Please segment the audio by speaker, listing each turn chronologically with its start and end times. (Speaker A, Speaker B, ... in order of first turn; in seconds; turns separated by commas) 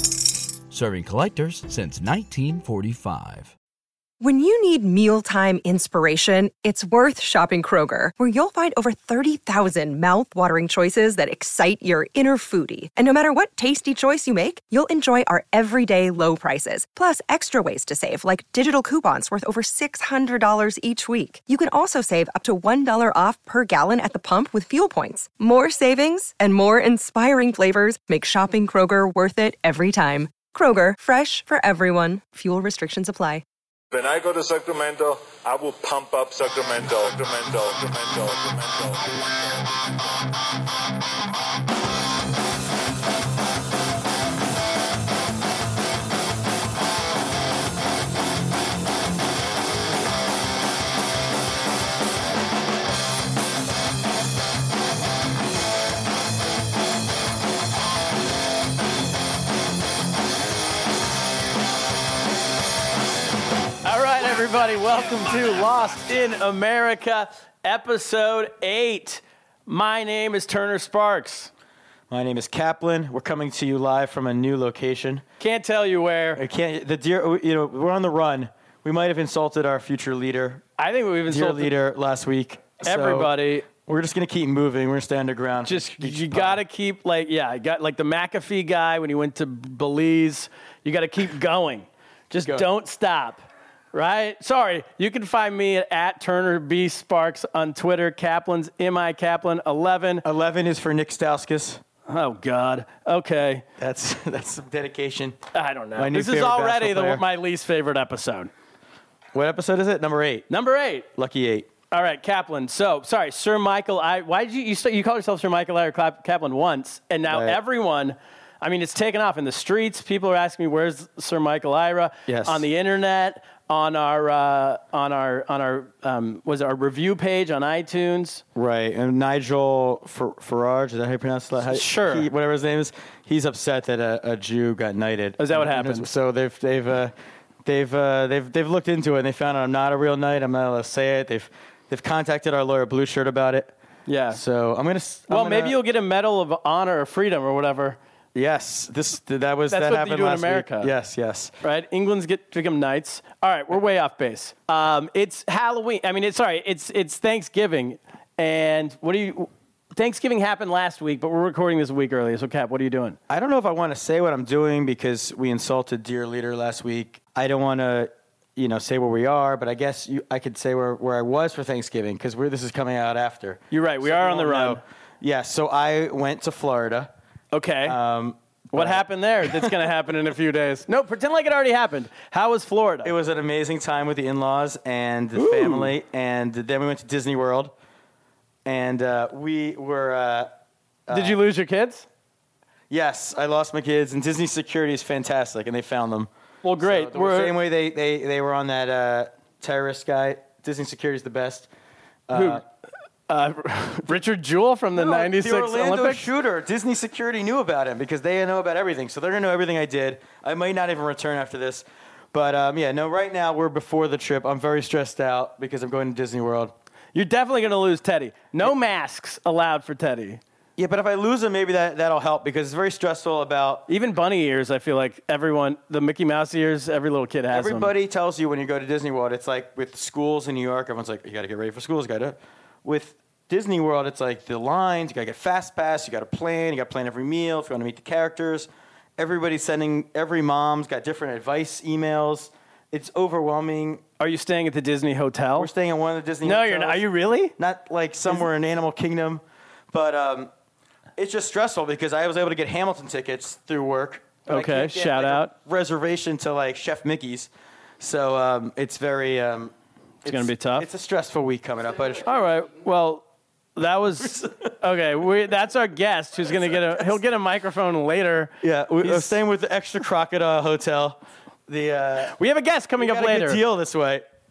Speaker A: 0.7-3.5, Speaker B: 4.2-33.4, Speaker C: 33.9-40.0, Speaker D: 63.8-71.5, Speaker E: 72.1-75.2, Speaker D: 75.4-76.4, Speaker E: 76.3-80.6, Speaker D: 80.8-81.7, Speaker E: 81.3-86.6, Speaker D: 82.8-83.7, Speaker D: 85.7-100.2, Speaker E: 100.2-101.8, Speaker D: 102.1-103.6, Speaker E: 103.8-105.4, Speaker D: 105.5-108.5, Speaker E: 106.0-107.2, Speaker E: 109.3-110.5, Speaker D: 110.5-111.1, Speaker E: 111.1-111.7, Speaker D: 111.9-128.4, Speaker E: 117.3-117.6, Speaker E: 122.3-122.6, Speaker E: 128.6-137.1, Speaker D: 131.6-132.3, Speaker D: 135.4-136.1, Speaker E: 137.6-143.7, Speaker D: 144.1-144.4, Speaker E: 144.3-145.8, Speaker D: 145.3-148.0, Speaker E: 148.3-151.5, Speaker D: 149.7-150.9, Speaker D: 151.6-163.2, Speaker E: 163.3-177.1, Speaker D: 173.7-174.8, Speaker D: 177.5-178.0, Speaker E: 177.8-179.7, Speaker D: 178.7-183.1, Speaker E: 183.0-187.7, Speaker D: 185.3-185.9, Speaker E: 188.6-190.5, Speaker E: 191.1-191.4, Speaker D: 191.1-192.1, Speaker E: 192.9-196.3, Speaker D: 196.6-197.6, Speaker E: 196.8-201.7, Speaker E: 202.3-202.6, Speaker D: 202.3-202.6, Speaker D: 203.3-206.3, Speaker E: 204.9-216.7, Speaker D: 217.1-220.4, Speaker E: 220.8-223.8, Speaker D: 223.9-227.9, Speaker E: 227.5-244.0, Speaker D: 244.2-245.7, Speaker E: 245.6-250.5, Speaker D: 246.4-247.5, Speaker E: 251.2-257.5, Speaker D: 254.5-255.5, Speaker E: 258.0-259.7, Speaker E: 260.2-262.3, Speaker D: 260.2-260.9, Speaker D: 262.2-263.2, Speaker D: 263.8-269.4, Speaker E: 264.2-264.7, Speaker E: 266.6-267.1, Speaker E: 268.6-272.4, Speaker D: 272.3-273.6, Speaker E: 273.0-274.2